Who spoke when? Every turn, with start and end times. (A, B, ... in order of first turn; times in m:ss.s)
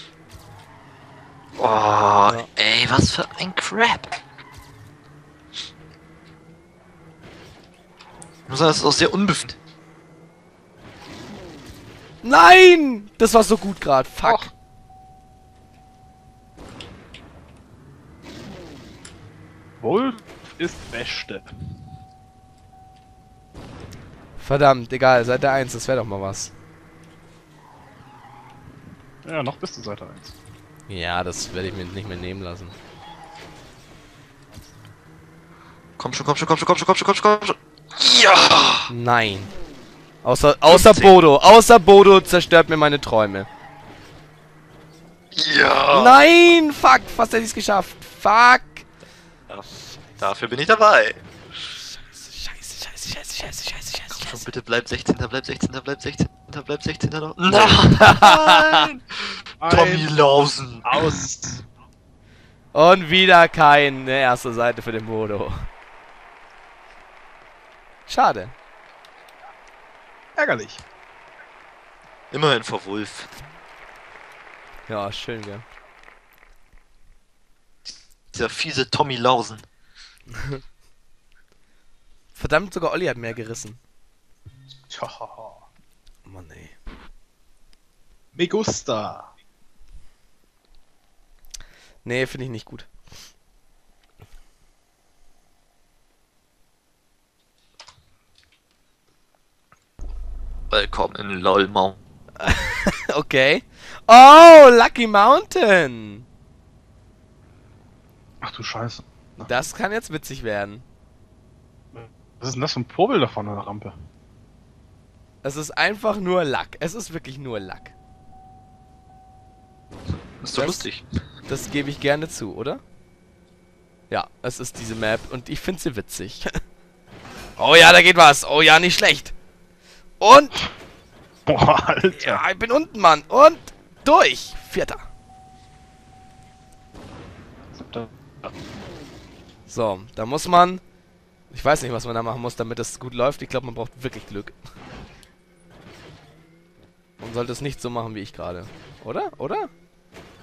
0:01.6-0:04.1 A
0:08.5-0:09.6 A
0:12.2-0:14.5 B
0:19.8-0:21.5 C
0:24.4-0:26.5 B
0:29.2-0:30.3 C
0:30.9-0:32.7 B
0:36.0-0:38.9 A
0:38.9-0:39.5 B
0:40.2-0:43.5 B
0:40.7-0:41.1 A
0:45.3-0:46.2 A
0:45.9-0:48.8 B
0:50.2-0:51.2 A
0:51.9-0:54.4 B
0:54.1-1:01.0 A
0:57.5-0:58.9 B
0:59.6-1:00.1 C
1:00.8-1:01.6 C
1:02.7-1:05.7 B
1:08.1-1:08.5 B
1:10.4-1:10.8 C
1:12.3-1:13.3 A
1:14.9-1:15.6 B
1:17.9-1:19.6 A
1:20.3-1:20.6 B
1:22.3-1:23.8 B
1:24.9-1:25.6 C
1:26.2-1:26.8 B
1:28.3-1:29.3 C
1:32.0-1:32.9 B
1:40.7-1:42.0 A
1:42.4-1:46.2 B
1:48.4-1:49.5 C
1:49.5-1:50.8 B
1:51.9-1:53.9 C
1:55.4-1:57.9 B
2:00.4-2:01.0 A
2:00.5-2:00.9 B
2:01.4-2:02.8 B
2:04.1-2:06.5 B
2:07.6-2:09.3 B
2:10.2-2:10.6 B
2:11.5-2:12.4 C
2:12.2-2:15.0 B
2:17.7-2:18.5 C
2:19.7-2:20.8 B
2:21.5-2:24.6 B
2:27.2-2:29.7 B